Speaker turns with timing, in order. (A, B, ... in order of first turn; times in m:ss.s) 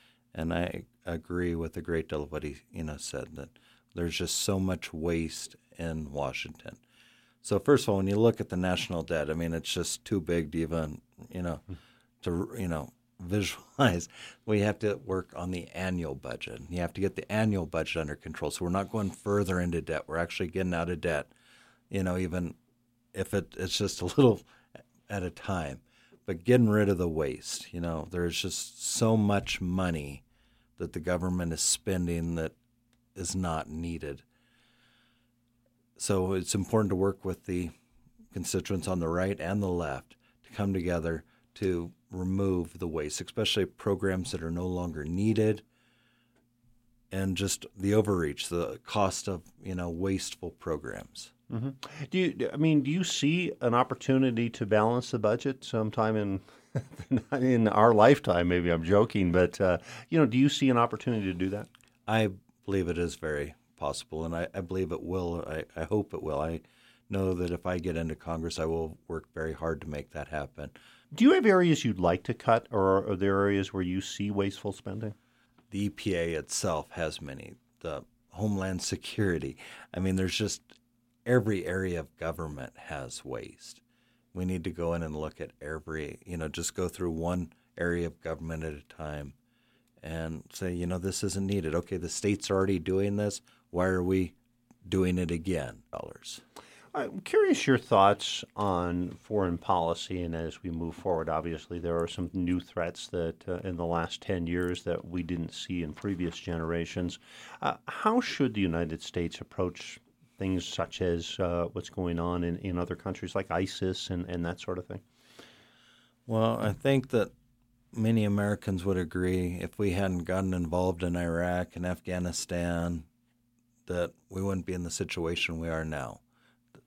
0:00.3-0:06.8 A
0:07.4-0:11.6 A
0:12.2-0:21.3 A
0:21.9-0:22.6 A
0:23.1-0:24.4 A
0:25.1-0:30.2 A
0:30.8-0:32.5 A
0:33.1-0:34.2 A
0:36.0-0:37.7 A
0:38.3-0:45.6 A
0:47.1-0:51.3 A
0:51.5-1:01.7 B
1:02.1-1:10.7 A
1:11.1-1:15.2 B
1:15.7-1:23.8 A
1:24.3-1:29.3 A
1:30.0-1:36.4 A
1:36.9-1:55.0 B
1:56.3-1:57.3 A
1:57.9-2:03.0 A
2:03.8-2:06.2 A